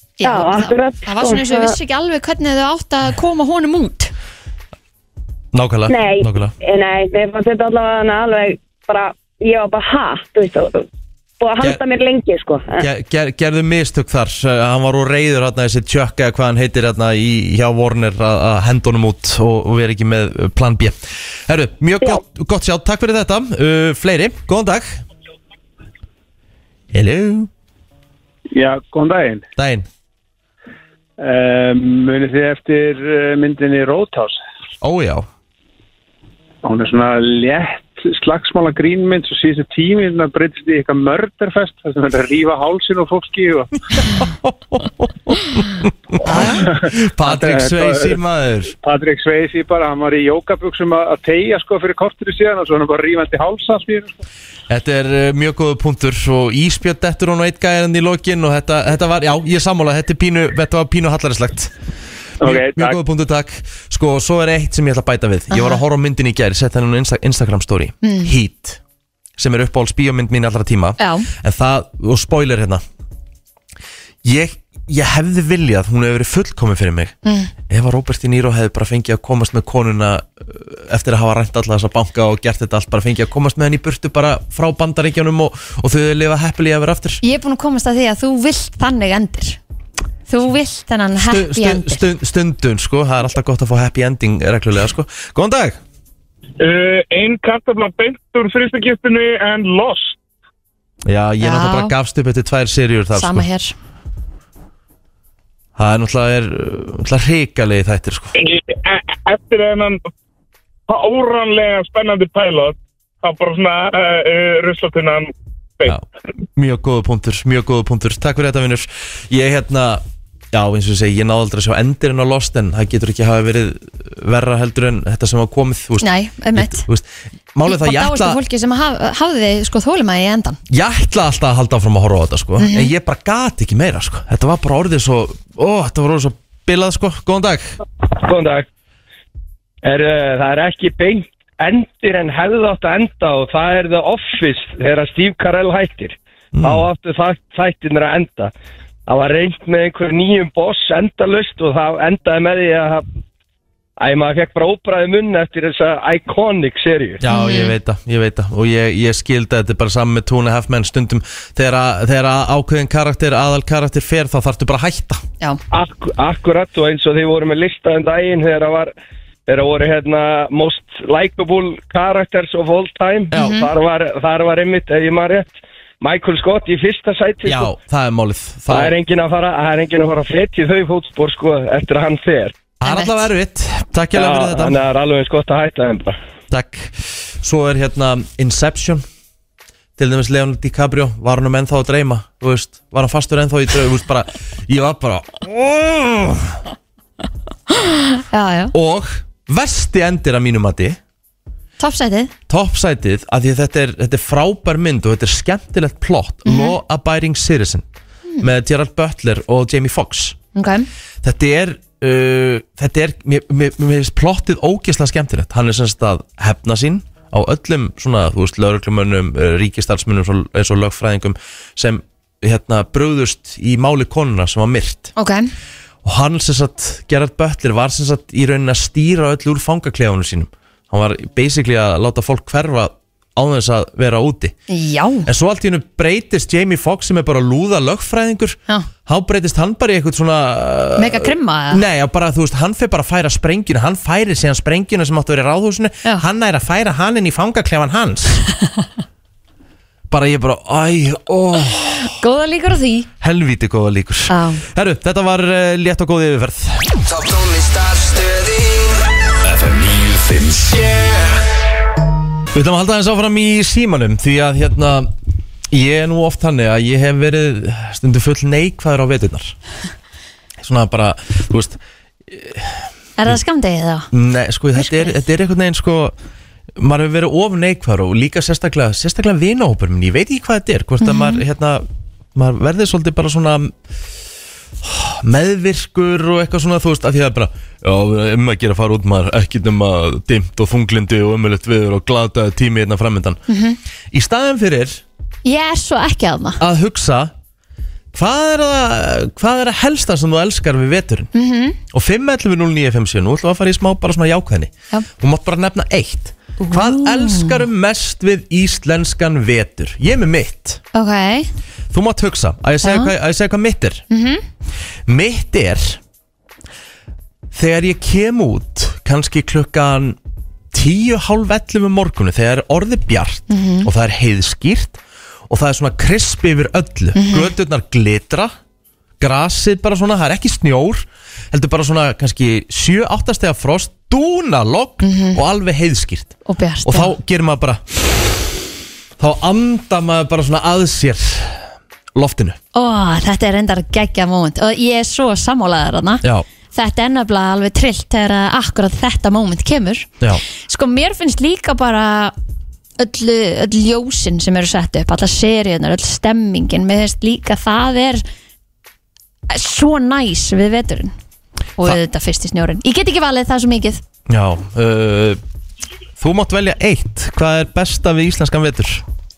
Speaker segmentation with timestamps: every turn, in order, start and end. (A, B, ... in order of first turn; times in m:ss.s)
0:00.2-0:04.1 A
0:00.2-0:01.8 B
0:05.5-0:06.5 C
0:05.9-0:10.9 B
0:11.4-0:12.9 B
0:12.8-0:25.0 C
0:26.9-0:27.5 C
0:28.5-0:29.4 D
0:29.6-0:29.9 C
0:31.2-0:34.4 D
0:34.8-0:35.3 C
0:36.6-0:43.7 D
0:44.0-0:48.7 C
0:46.4-0:48.1 D
0:48.8-0:54.1 D
0:54.7-1:01.7 C
1:02.4-1:08.8 C
1:02.4-1:03.0 D
1:05.5-1:05.8 A
1:08.0-1:08.3 A
1:09.4-1:12.8 C
1:11.0-1:11.3 A
1:14.2-1:17.1 C
1:17.2-1:17.5 A
1:17.7-1:27.2 C
1:27.2-1:29.6 A
1:30.3-1:32.0 A
1:31.2-1:35.8 C
1:36.6-1:40.2 E
1:41.1-1:43.5 C
1:41.4-1:41.9 A
1:43.2-1:43.8 A
1:45.8-1:48.4 C
1:48.4-1:50.0 E
1:50.9-1:55.9 E
1:55.9-2:08.4 C
2:06.0-2:06.8 A
2:07.7-2:10.6 A
2:10.7-2:17.8 C
2:12.6-2:12.9 A
2:18.1-2:18.7 F
2:19.8-2:28.5 F
2:26.6-2:26.9 C
2:29.1-2:33.0 F
2:34.0-2:37.2 F
2:37.2-2:45.2 C
2:37.3-2:37.8 A
2:45.7-2:48.9 F
2:49.5-2:57.7 F
2:53.3-2:53.6 C
2:53.3-2:53.7 A
2:57.4-2:58.9 C
2:58.7-3:02.7 F
3:02.8-3:04.8 C
3:02.8-3:03.2 A
3:04.1-3:06.1 F
3:06.5-3:09.0 C
3:10.0-3:16.6 C
3:17.7-3:18.7 A
3:18.7-3:21.0 C
3:21.8-3:22.3 A
3:22.5-3:27.8 C
3:26.4-3:26.8 A
3:28.4-3:30.4 C
3:30.6-3:30.9 A
3:31.2-3:45.1 C
3:45.2-3:45.4 A
3:46.0-3:54.6 C
3:54.7-3:55.3 A
3:55.3-4:08.4 C
4:01.0-4:01.8 A
4:10.1-4:12.1 C
4:12.2-4:13.1 A
4:13.2-4:16.9 C
4:14.3-4:14.6 A
4:17.1-4:18.8 G
4:19.4-4:21.2 G
4:22.5-4:25.1 C
4:25.7-4:29.6 C
4:30.6-4:33.4 C
4:33.2-4:34.1 A
4:34.1-4:36.2 C
4:34.8-4:35.2 A
4:36.8-4:43.8 C
4:41.0-4:41.4 A
4:44.8-4:53.4 C
4:53.5-4:53.8 A
4:54.1-4:55.0 C
4:55.4-4:56.6 A
4:56.6-4:57.3 C
4:58.1-5:01.3 C
5:01.3-5:01.8 A
5:01.9-5:10.8 C
5:06.6-5:07.6 A
5:10.9-5:11.5 A
5:11.9-5:14.0 C
5:12.8-5:13.1 A
5:14.1-5:14.4 A
5:15.1-5:16.0 C
5:17.5-5:20.2 C
5:20.7-5:28.5 C
5:23.5-5:23.9 A
5:27.2-5:27.5 A
5:29.2-5:38.4 C
5:35.0-5:35.4 A
5:36.5-5:37.1 A
5:39.2-5:42.6 C
5:42.7-5:52.3 A
5:53.0-5:58.2 A
5:59.5-6:01.1 A
6:01.8-6:04.0 A
6:04.3-6:05.4 C
6:06.2-6:09.0 C